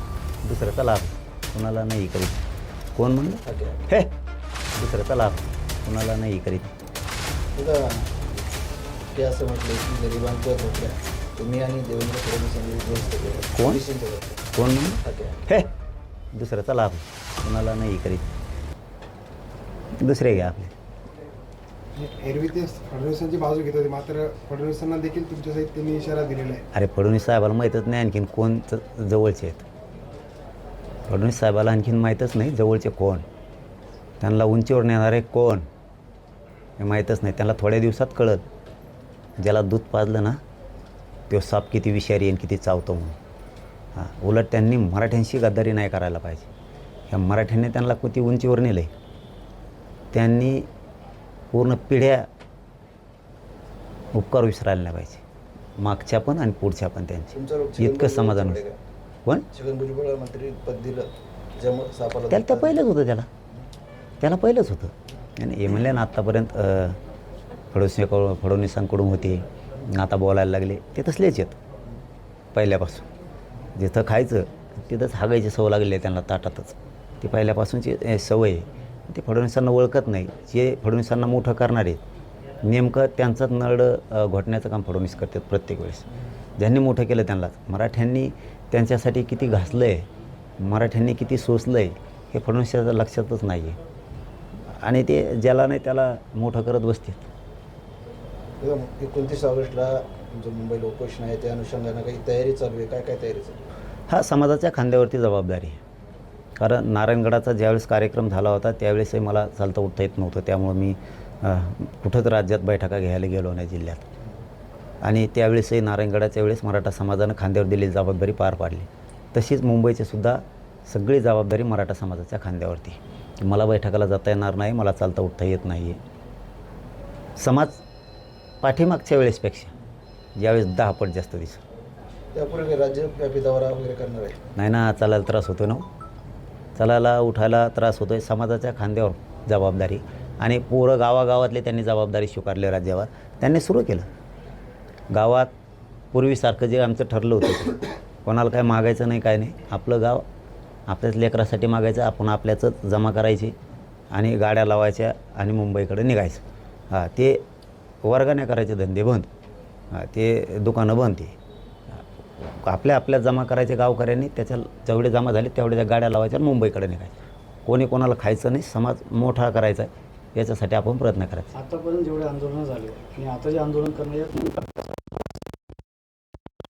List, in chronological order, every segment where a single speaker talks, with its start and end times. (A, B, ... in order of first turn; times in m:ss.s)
0:00.4-0:02.4 A
0:03.0-0:04.1 A
0:03.4-0:03.9 B
0:04.7-0:06.7 A
0:07.5-0:08.3 B
0:09.1-0:14.4 B
0:13.5-0:13.8 A
0:14.5-0:15.7 A
0:15.0-0:15.4 B
0:16.3-0:18.3 A
0:20.0-0:20.7 A
0:21.9-0:26.6 C
0:26.7-0:29.6 A
0:31.1-0:33.2 A
0:34.2-0:35.7 A
0:36.8-0:38.4 A
0:39.4-0:40.4 A
0:41.3-0:43.2 A
0:43.9-0:46.5 A
0:47.1-0:48.9 A
0:50.1-0:50.7 A
0:51.5-0:52.2 A
0:54.1-0:55.2 A
0:55.8-0:58.6 A
0:57.3-0:58.8 B
0:59.5-1:02.8 B
1:02.3-1:03.3 A
1:04.2-1:07.0 A
1:07.7-1:11.6 A
1:12.5-1:13.1 A
1:13.7-1:22.0 A
1:22.6-1:26.0 A
1:26.6-1:30.1 A
1:30.6-1:33.8 A
1:34.8-1:37.3 A
1:38.6-1:43.6 B
1:44.1-1:45.8 A
1:46.6-1:54.0 A
1:55.0-2:06.0 A
2:07.4-2:07.8 A
2:08.6-2:09.7 A
2:10.4-2:11.6 A
2:12.3-2:14.4 B
2:14.6-2:15.8 A
2:16.8-2:24.1 A
2:25.1-2:25.5 A
2:26.1-2:30.2 A
2:30.9-2:33.5 A
2:34.1-2:37.4 A
2:38.0-2:39.3 A
2:39.9-2:41.4 A
2:41.9-2:51.5 A
2:51.6-2:54.8 D